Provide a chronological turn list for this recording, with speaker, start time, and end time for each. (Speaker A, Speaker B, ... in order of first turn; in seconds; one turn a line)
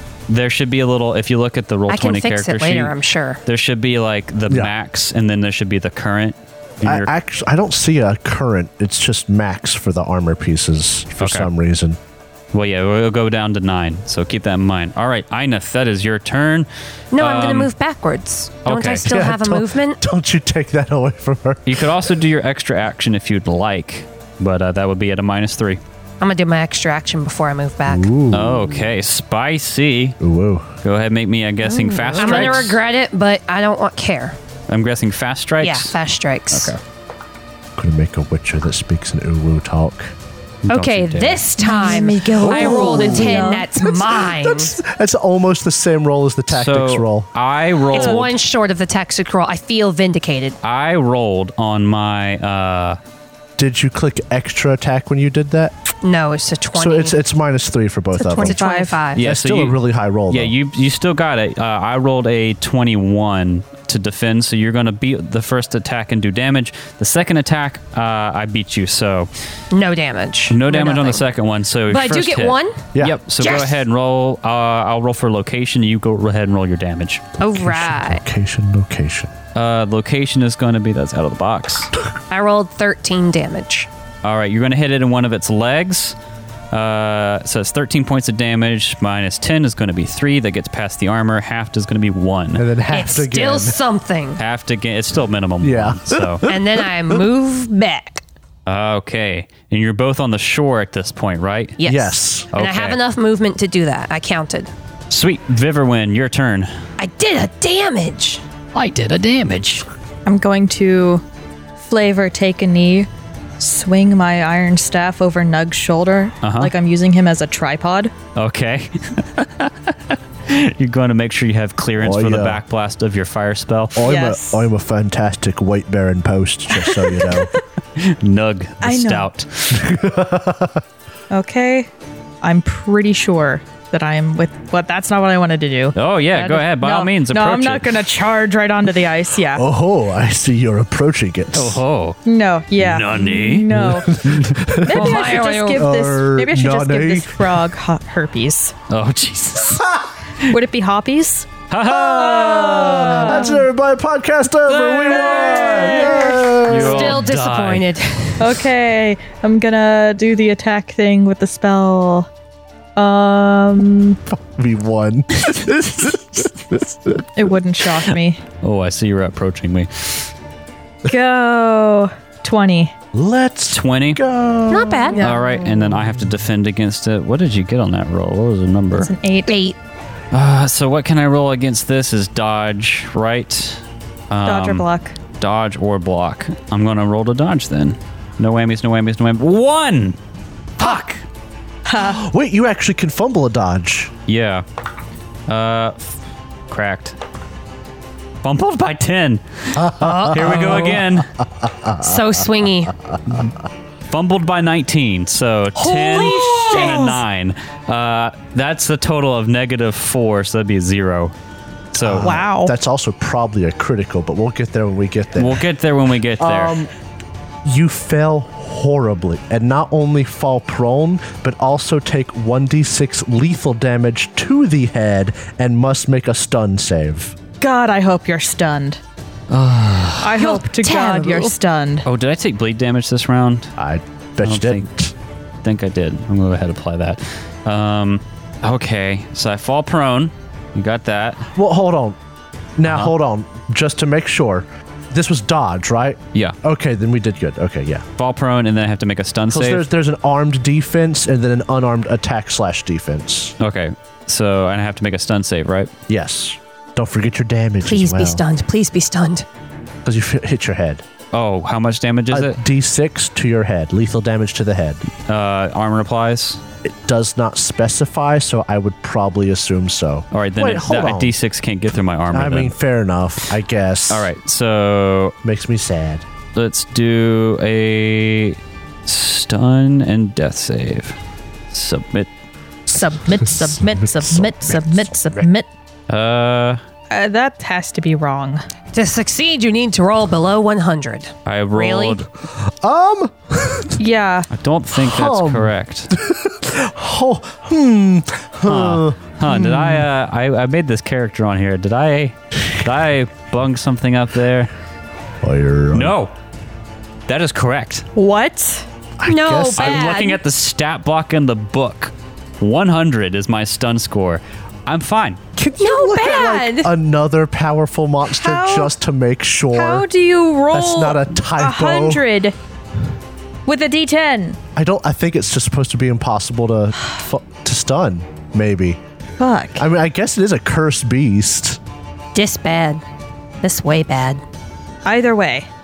Speaker A: 0.3-2.9
Speaker B: 1.9-3.4
Speaker A: 3.4-7.1
Speaker C: 6.8-12.0
Speaker A: 11.2-11.5
Speaker A: 12.5-17.7
Speaker B: 17.1-20.0
Speaker A: 18.6-19.1
Speaker C: 19.0-21.9
Speaker A: 21.6-25.8
Speaker B: 26.2-28.1
Speaker C: 27.9-28.9
Speaker A: 28.3-30.2
Speaker C: 30.2-30.8
Speaker A: 30.8-32.8
Speaker D: 31.9-32.3
Speaker B: 32.1-34.4
Speaker A: 34.7-35.9
Speaker B: 35.6-36.7
Speaker A: 36.5-36.8
Speaker C: 37.8-40.1
Speaker A: 40.6-41.4
Speaker B: 40.7-44.8
Speaker D: 41.6-43.7
Speaker C: 42.3-47.3
Speaker A: 46.5-48.3
Speaker B: 47.9-50.6
Speaker A: 50.6-53.0
Speaker C: 53.6-55.8
Speaker B: 56.0-57.2
Speaker C: 56.7-58.6
Speaker D: 58.1-59.0
Speaker B: 58.4-59.2
Speaker A: 59.1-69.3
Speaker C: 59.2-60.5
Speaker B: 69.7-71.2
Speaker A: 70.5-77.2
Speaker B: 71.9-72.8
Speaker C: 72.9-73.5
Speaker B: 73.4-73.8
Speaker B: 77.4-78.2
Speaker C: 77.5-79.3
Speaker A: 79.5-81.9
Speaker B: 82.3-83.9
Speaker A: 84.2-86.2
Speaker A: 86.7-92.6
Speaker C: 92.5-93.8
Speaker B: 92.9-94.4
Speaker A: 94.4-96.4
Speaker C: 95.6-97.2
Speaker B: 96.5-98.2
Speaker A: 98.7-101.8
Speaker B: 101.8-104.7
Speaker C: 101.8-102.5
Speaker A: 102.5-103.0
Speaker A: 105.1-106.7
Speaker B: 107.0-108.4
Speaker A: 108.7-109.8
Speaker D: 110.2-111.2
Speaker D: 111.8-113.1
Speaker D: 113.6-118.1
Speaker A: 116.4-116.7
Speaker A: 118.3-124.0
Speaker C: 122.0-122.6
Speaker C: 123.9-127.5
Speaker D: 124.0-124.7
Speaker A: 128.0-129.9
Speaker D: 128.8-129.3
Speaker C: 129.7-130.8
Speaker D: 131.3-131.9
Speaker D: 132.4-139.6
Speaker A: 135.9-138.0
Speaker C: 139.5-141.8
Speaker A: 141.5-142.2
Speaker D: 142.2-144.2
Speaker A: 142.8-144.6
Speaker C: 143.7-147.6
Speaker D: 144.8-148.7
Speaker B: 144.9-145.9
Speaker A: 148.9-149.9
Speaker D: 150.5-151.5
Speaker A: 151.7-153.5
Speaker C: 151.9-157.3
Speaker D: 152.1-153.6
Speaker A: 154.8-156.1
Speaker B: 155.0-158.6
Speaker D: 155.2-156.0
Speaker A: 156.6-157.9
Speaker D: 158.4-162.3
Speaker D: 162.9-164.2
Speaker C: 164.3-167.2
Speaker D: 167.3-168.4
Speaker A: 168.6-170.3
Speaker D: 171.0-172.9
Speaker C: 173.1-175.1
Speaker A: 173.7-174.2
Speaker B: 174.7-175.3
Speaker D: 175.1-175.8
Speaker A: 175.2-179.1
Speaker D: 178.9-179.5
Speaker B: 179.4-179.8
Speaker A: 180.3-184.8
Speaker D: 184.4-185.2
Speaker A: 185.4-190.2
Speaker A: 190.8-191.2
Speaker D: 191.9-192.2
Speaker C: 191.9-194.1
Speaker A: 194.3-194.6
Speaker A: 195.5-196.1
Speaker A: 196.7-197.2
Speaker A: 198.4-201.3
Speaker C: 199.8-201.0
Speaker B: 200.0-200.9
Speaker C: 201.6-202.2
Speaker B: 202.0-202.9
Speaker A: 204.1-211.3
Speaker D: 205.8-207.2
Speaker B: 206.1-207.1
Speaker C: 206.2-207.1
Speaker A: 211.9-212.3
Speaker C: 212.0-215.6
Speaker D: 212.1-212.7
Speaker A: 215.4-216.8
Speaker C: 216.4-216.9
Speaker C: 217.6-227.3
Speaker D: 227.6-229.0
Speaker A: 229.5-230.3
Speaker D: 230.2-232.1
Speaker B: 230.3-231.5
Speaker A: 232.0-233.7
Speaker C: 233.8-235.1
Speaker A: 234.4-234.8
Speaker A: 235.6-241.5
Speaker C: 241.5-242.2
Speaker C: 242.8-248.0
Speaker A: 242.9-243.1
Speaker A: 248.2-249.9
Speaker C: 249.5-253.5
Speaker A: 253.6-255.9
Speaker C: 256.1-258.4
Speaker B: 257.8-259.4
Speaker C: 260.0-261.0
Speaker A: 261.3-262.6
Speaker C: 262.3-265.0
Speaker A: 265.3-266.6
Speaker C: 266.8-271.3
Speaker A: 270.3-272.7
Speaker C: 272.3-274.3
Speaker A: 274.1-275.4
Speaker C: 275.4-276.2
Speaker A: 276.5-281.2
Speaker A: 281.7-282.3
Speaker D: 282.9-285.7
Speaker C: 284.2-285.5
Speaker A: 286.1-286.8
Speaker D: 287.1-288.6
Speaker B: 288.9-292.2
Speaker A: 291.4-292.3
Speaker C: 292.6-294.0
Speaker D: 294.0-294.5
Speaker A: 294.5-296.1
Speaker C: 295.0-300.0
Speaker A: 298.6-304.7
Speaker C: 305.4-306.1
Speaker A: 305.9-306.3
Speaker A: 307.3-308.1
Speaker D: 308.1-308.8
Speaker C: 309.2-310.2
Speaker B: 309.2-310.4
Speaker A: 309.7-315.4
Speaker C: 315.6-320.1
Speaker B: 315.8-316.9
Speaker D: 318.4-318.9
Speaker D: 319.7-322.5
Speaker C: 320.7-322.2
Speaker D: 323.6-324.6
Speaker C: 324.7-329.0
Speaker D: 329.4-329.9
Speaker C: 329.8-331.8
Speaker B: 332.3-333.0
Speaker B: 333.6-334.4
Speaker D: 335.0-335.7